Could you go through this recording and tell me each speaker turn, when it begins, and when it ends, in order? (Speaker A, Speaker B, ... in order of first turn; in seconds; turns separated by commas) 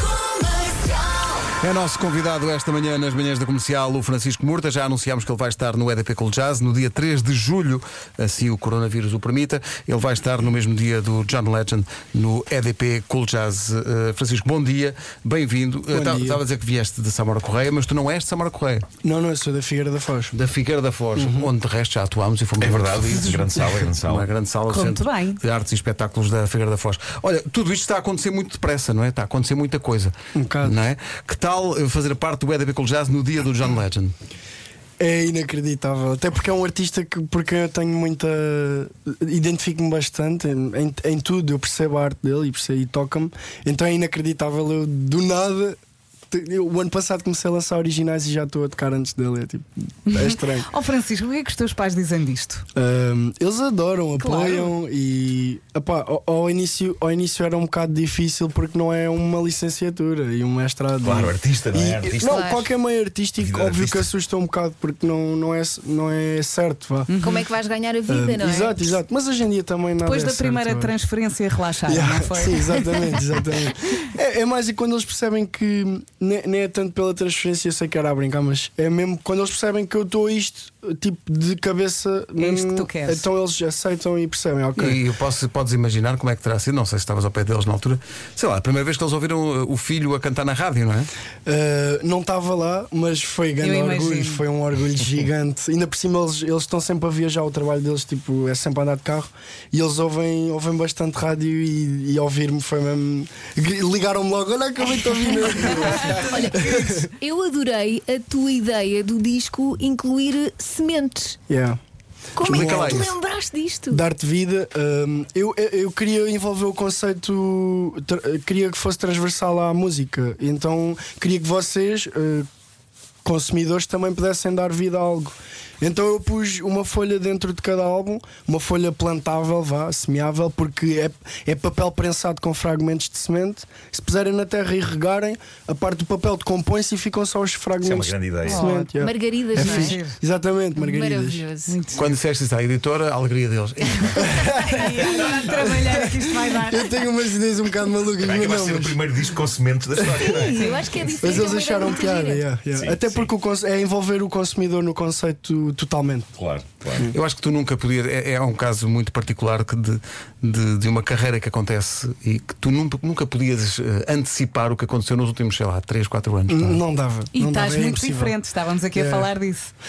Speaker A: 1.6-18.9, Speaker B: 15.9-16.4, Speaker B: 19.0-20.3, Speaker A: 20.3-34.1, Speaker B: 21.1-21.5, Speaker C: 22.6-24.3, Speaker D: 24.7-25.4, Speaker B: 30.4-30.8, Speaker B: 35.0-45.8, Speaker B: 46.3-50.7, Speaker D: 50.1-52.7, Speaker B: 52.8-67.1, Speaker D: 54.2-54.7, Speaker C: 61.0-62.4, Speaker E: 62.2-62.7, Speaker C: 63.4-64.1, Speaker D: 67.1-67.5, Speaker E: 67.2-68.8, Speaker B: 68.1-71.0, Speaker D: 70.0-73.2, Speaker B: 71.9-85.0, Speaker D: 82.4-83.3, Speaker A: 84.8-91.1, Speaker B: 91.5-107.1, Speaker D: 93.6-94.4, Speaker D: 105.7-107.0, Speaker E: 106.2-111.4, Speaker B: 111.5-111.8, Speaker E: 112.4-114.0, Speaker A: 112.4-113.2, Speaker B: 112.5-113.0, Speaker B: 113.9-122.5, Speaker B: 123.2-141.4, Speaker C: 137.8-138.7, Speaker D: 138.4-138.9, Speaker E: 139.0-140.0, Speaker D: 139.6-140.2, Speaker E: 140.8-141.8, Speaker D: 141.7-142.1, Speaker A: 141.9-144.6, Speaker B: 144.4-149.0, Speaker D: 144.7-147.0, Speaker C: 145.2-145.5, Speaker C: 148.2-150.6, Speaker E: 150.2-152.4, Speaker D: 150.3-150.9, Speaker B: 151.2-156.3, Speaker C: 152.7-153.3, Speaker C: 156.4-157.1, Speaker A: 157.1-166.8, Speaker B: 166.5-168.4, Speaker D: 167.3-169.7, Speaker B: 168.9-169.3